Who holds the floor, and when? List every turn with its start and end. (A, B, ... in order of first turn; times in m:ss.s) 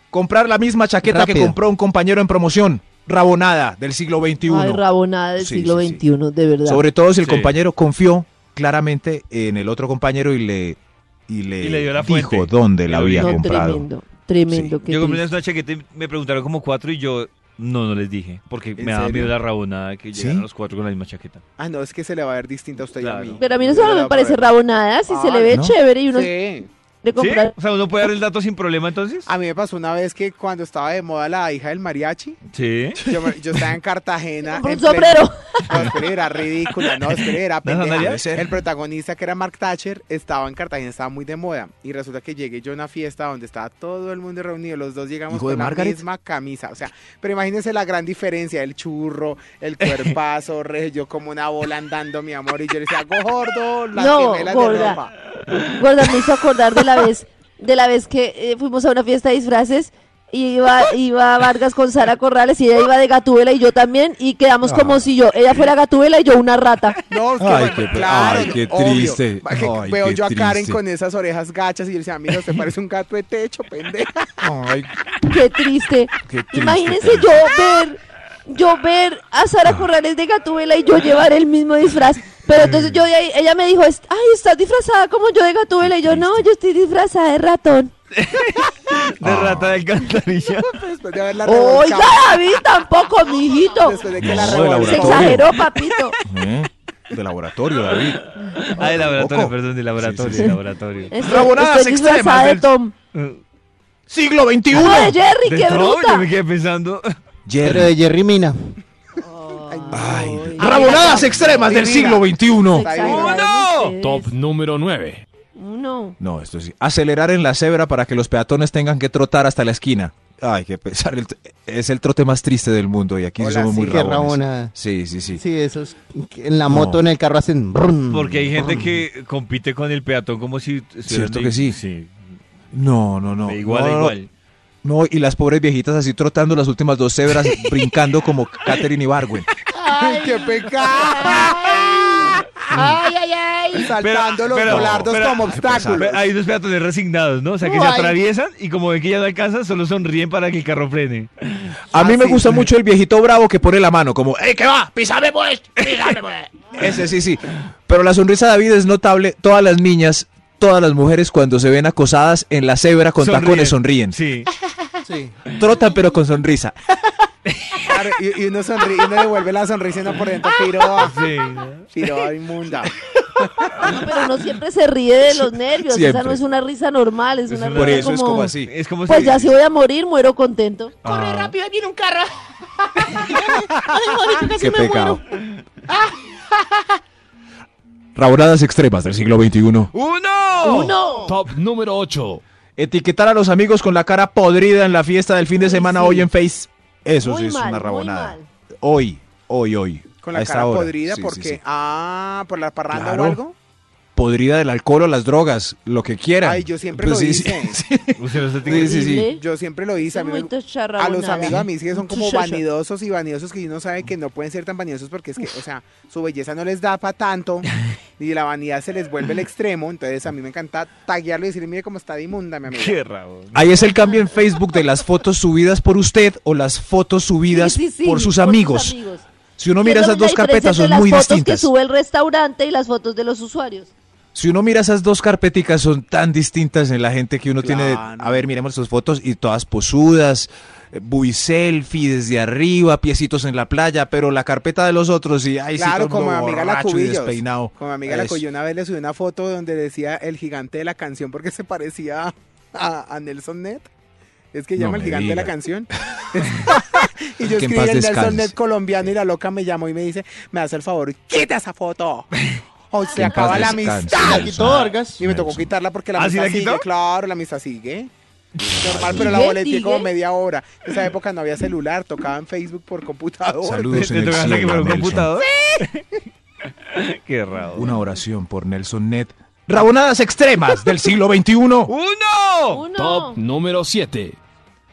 0:00.1-0:04.8 A
0:01.0-0:01.6 B
0:04.4-0:06.8 C
0:05.4-0:06.0 A
0:06.6-0:13.9 A
0:07.2-0:07.5 D
0:11.6-0:13.6 D
0:13.2-0:15.2 C
0:14.5-0:14.7 A
0:14.8-0:21.4 D
0:18.8-0:19.3 A
0:20.1-0:20.4 A
0:21.6-0:24.5 E
0:22.9-0:23.4 D
0:23.4-0:26.3 C
0:25.1-0:25.6 E
0:25.5-0:25.7 A
0:26.1-0:26.7 E
0:27.0-0:27.5 C
0:27.2-0:29.3 D
0:29.2-0:32.4 E
0:32.5-0:33.0 D
0:33.0-0:55.1 E
0:34.4-0:35.6 C
0:37.6-0:38.2 D
0:38.0-0:38.5 A
0:45.3-0:46.0 A
0:49.8-0:50.1 D
0:54.0-0:55.0 C
0:55.7-1:07.0 C
1:04.6-1:05.0 A
1:07.1-1:14.5 E
1:07.4-1:10.8 A
1:14.4-1:14.9 A
1:15.2-1:27.9 C
1:16.2-1:17.5 A
1:25.8-1:26.5 A
1:28.1-1:30.8 D
1:29.2-1:29.8 A
1:30.7-1:32.4 E
1:31.4-1:34.0 C
1:33.7-1:35.4 E
1:34.2-1:35.5 A
1:34.2-1:35.4 D
1:34.7-1:36.2 C
1:36.2-1:40.6 A
1:38.4-1:41.1 D
1:41.1-1:42.9 C
1:41.2-1:42.7 A
1:43.1-1:43.4 D
1:44.1-1:45.2 A
1:44.7-1:46.3 C
1:44.8-1:47.1 D
1:47.4-1:47.9 A
1:47.6-1:48.7 B
1:49.2-1:51.8 C
1:49.7-1:53.5 E
1:49.9-1:52.9 A
1:52.6-1:54.3 C
1:53.0-1:53.9 D
1:54.0-1:55.2 F
1:55.6-1:56.2 C
1:56.2-2:05.4 A
2:03.4-2:04.2 E
2:03.8-2:04.7 B
2:05.3-2:08.9 B
2:06.7-2:07.0 A
2:08.1-2:12.1 D
2:08.6-2:08.9 A
2:11.1-2:11.8 A
2:12.7-2:14.2 A
2:13.4-2:14.3 D
2:14.8-2:19.5 A
2:17.4-2:17.9 D
2:19.8-2:26.2 E
2:21.2-2:21.6 D
2:22.7-2:23.0 A
2:24.0-2:31.8 D
2:24.6-2:26.0 A
2:31.9-2:44.2 A
2:31.9-2:32.6 E
2:35.8-2:36.1 D
2:43.2-2:44.5 D
2:45.0-2:45.3 B
2:45.5-2:46.7 A
2:47.5-2:47.9 D
2:47.8-2:51.2 E
2:50.9-2:52.1 D
2:51.9-2:52.9 E
2:53.8-2:58.5 C
2:55.4-2:56.4 A
2:57.5-2:59.5 D
2:57.7-2:59.5 A
2:59.1-3:01.0 C
3:01.0-3:01.5 D
3:01.0-3:02.3 E
3:02.8-3:04.5 E
3:03.4-3:05.2 B
3:04.6-3:05.2 A
3:05.9-3:06.9 E
3:08.1-3:09.9 A
3:09.9-3:10.9 D
3:10.6-3:11.3 C
3:10.7-3:11.3 B
3:11.2-3:12.4 F
3:12.8-3:21.6 A
3:15.6-3:16.2 C
3:17.2-3:18.4 C
3:20.2-3:23.5 E
3:22.9-3:23.4 A
3:24.2-3:29.3 A
3:26.4-3:27.8 E
3:28.2-3:28.9 D
3:28.7-3:29.4 C
3:29.2-3:37.7 E
3:30.0-3:32.6 C
3:38.2-3:43.0 E
3:42.7-3:43.8 D
3:43.5-3:49.0 A
3:47.5-3:49.2 C
3:49.6-3:51.7 A
3:49.8-3:53.9 C
3:54.3-4:08.4 A
3:57.6-3:58.5 E
4:05.8-4:13.9 E
4:14.5-4:22.3 E
4:14.8-4:15.5 A
4:17.4-4:18.5 A
4:22.9-4:24.5 E
4:23.0-4:23.2 C
4:23.1-4:25.7 A
4:24.1-4:25.2 B
4:24.5-4:24.9 D
4:25.2-4:28.1 E
4:26.2-4:26.8 D
4:28.6-4:34.0 E
4:28.7-4:29.5 A
4:29.1-4:30.1 C
4:33.6-4:35.3 A
4:33.9-4:36.0 D
4:36.8-4:37.9 D
4:37.7-4:41.9 A
4:41.9-4:42.8 D
4:42.7-4:43.4 C
4:42.9-4:44.4 F